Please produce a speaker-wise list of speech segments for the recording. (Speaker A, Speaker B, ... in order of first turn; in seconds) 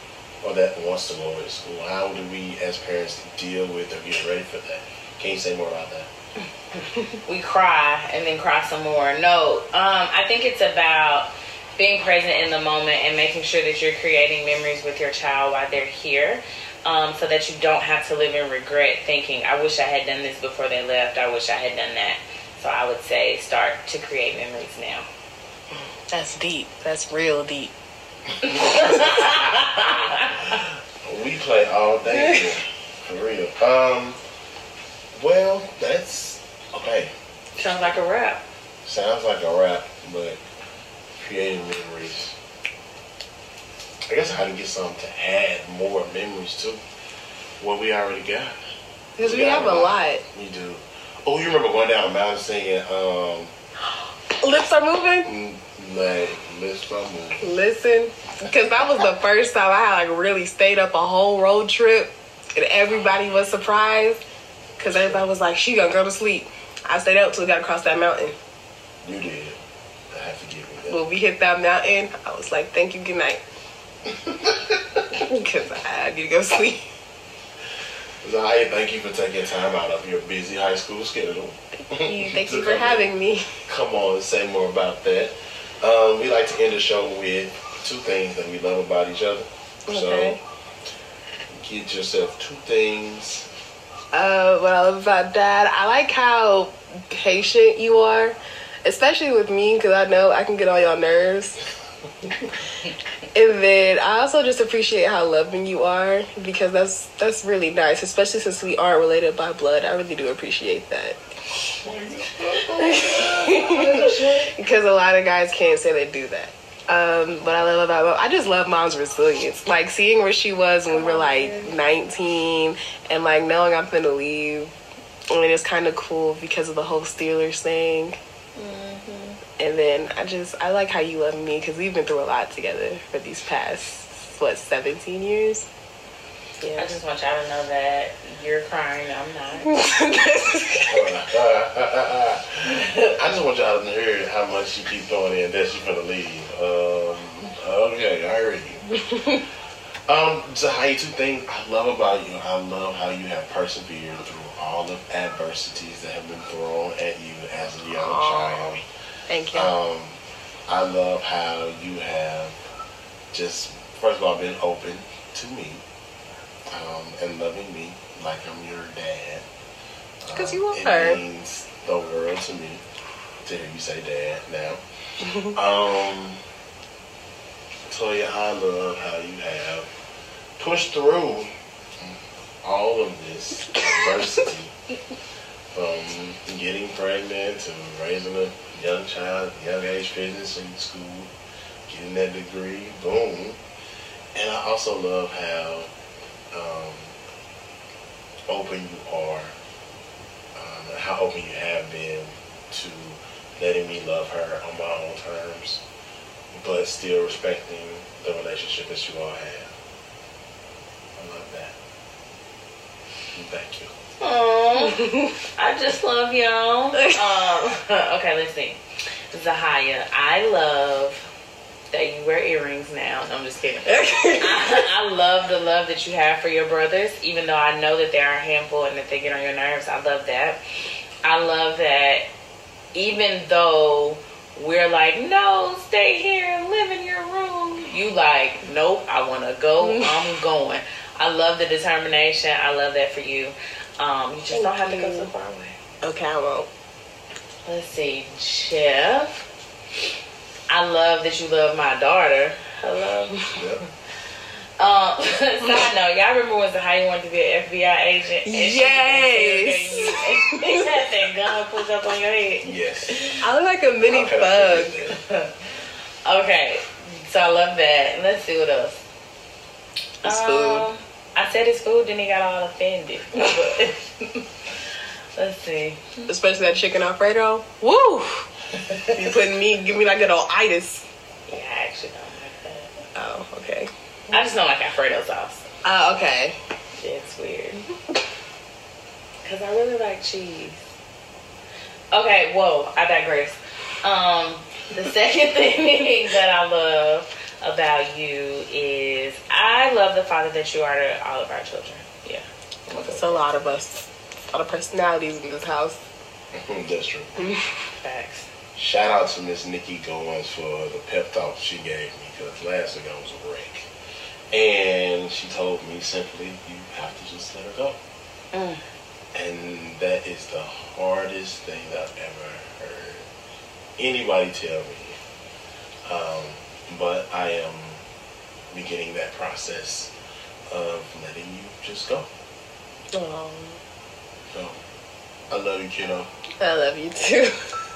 Speaker A: 0.4-6.1, 30.5-34.2, 35.1-37.1, 38.9-40.4, 41.2-42.4, 44.1-46.8, 47.6-48.6, 49.2-53.5, 55.2-57.5, 69.0-69.6, 70.1-71.0, 74.1-75.0, 78.2-83.1, 83.7-90.4, 91.5-93.5, 111.8-114.3, 140.7-149.0, 150.1-158.8, 159.5-162.5, 163.3-165.8, 166.7-169.5, 170.2-172.8, 173.4-176.4, 177.9-179.9, 180.6-184.8, 185.7-191.3, 191.9-193.6, 194.3-195.9, 196.5-197.2, 198.5-199.5, 200.6-205.8, 206.5-209.7, 211.2-211.8, 213.3-213.9, 253.5-253.8, 262.6-263.3, 264.1-265.2, 306.5-307.4, 308.8-313.9, 314.5-318.0, 319.3-323.3, 324.0-325.2, 326.1-328.0, 328.7-330.1, 330.7-332.3, 334.5-334.8, 335.5-336.3
Speaker B: 7.1-25.1, 28.5-30.4, 37.6-38.4, 113.2-114.5, 120.9-121.8, 128.6-129.4, 136.8-139.8, 214.2-218.8, 219.3-221.2, 221.9-230.6, 231.2-232.3, 232.9-245.8, 247.7-249.4, 250.7-253.5, 254.8-263.4, 265.1-265.6, 266.2-269.0, 270.2-274.5, 275.4-276.3, 281.5-282.9, 284.3-285.6, 287.0-287.8, 289.4-290.9, 292.1-303.5, 307.9-308.5, 318.5-318.8
Speaker C: 26.1-27.7, 49.2-50.2, 54.4-55.3, 57.4-64.2, 64.8-68.3, 70.9-73.4, 75.1-76.9, 81.9-83.6, 89.9-90.4, 94.1-101.6, 103.3-111.2, 112.8-124.7, 125.3-128.2, 129.6-135.7, 139.7-141.1, 158.0-159.7, 170.3-171.2, 224.0-224.4, 244.5-245.3, 246.0-246.7, 258.4-260.9, 263.4-265.0, 270.2-270.9, 276.3-278.5, 279.1-281.1, 283.1-283.9, 285.8-286.6, 302.9-306.0, 333.1-333.8, 336.6-337.8